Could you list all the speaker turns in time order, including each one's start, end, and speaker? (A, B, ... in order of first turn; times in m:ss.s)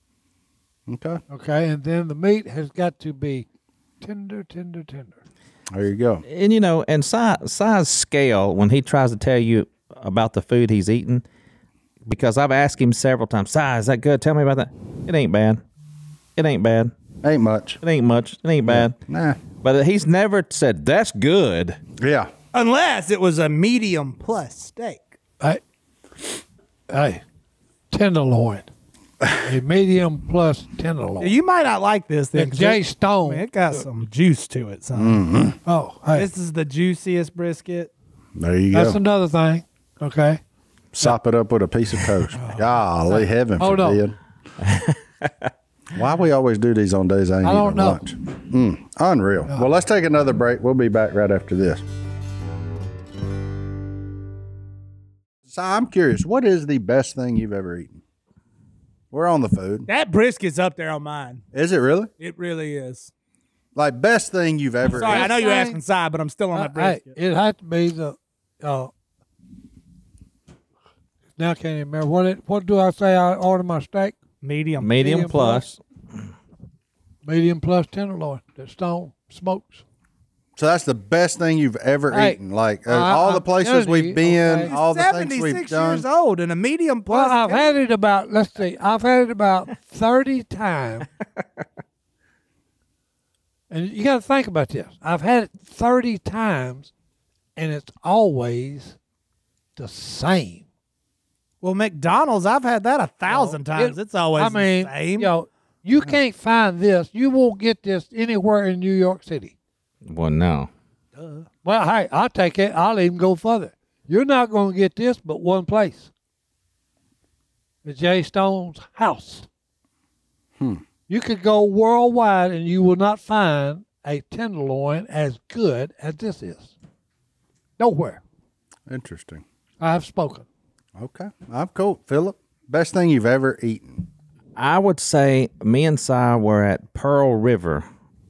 0:00.9-0:01.2 A
0:01.3-0:03.5 B
0:04.0-0:05.2 B
0:05.7-0:06.2 A
0:06.3-0:11.2 C
0:12.1-0:15.6 C
0:16.4-0:16.9 C
0:17.2-0:17.8 A
0:17.8-0:19.0 C
0:18.7-0:19.4 A
0:19.6-0:21.8 C
0:22.0-0:22.3 A
0:22.5-0:25.1 D
0:26.9-0:27.2 B
0:27.9-0:28.7 B
0:29.4-0:31.4 B
0:31.2-0:35.2 D
0:32.4-0:33.8 B
0:35.0-0:35.6 A
0:35.7-0:36.3 B
0:36.2-0:37.9 D
0:38.4-0:39.0 A
0:38.7-0:40.4 B
0:40.9-0:44.2 A
0:42.4-0:42.8 D
0:43.6-0:44.0 B
0:44.6-0:45.3 C
0:45.9-0:51.8 A
0:47.4-0:48.0 B
0:55.5-0:58.0 A
0:59.1-0:59.9 A
0:59.9-1:01.4 D
1:01.5-1:02.1 A
1:02.2-1:03.1 D
1:03.8-1:05.3 A
1:04.9-1:05.8 B
1:04.9-1:07.2 D
1:06.5-1:08.9 B
1:11.4-1:14.2 B
1:14.4-1:14.9 D
1:14.8-1:15.8 C
1:15.0-1:15.6 B
1:17.2-1:19.8 B
1:20.6-1:26.0 A
1:22.1-1:24.7 B
1:24.7-1:27.8 D
1:27.1-1:31.1 B
1:33.7-1:36.9 B
1:37.6-1:39.0 B
1:39.8-1:40.6 B
1:41.6-1:45.3 D
1:43.3-1:49.5 B
1:50.0-1:50.7 C
1:51.2-1:51.4 D
1:51.6-1:56.1 B
1:57.8-1:59.5 B
2:00.6-2:00.8 A
2:01.1-2:06.7 B
2:07.8-2:08.2 B
2:08.9-2:09.4 A
2:09.8-2:10.4 B
2:11.0-2:14.1 A
2:14.6-2:17.9 C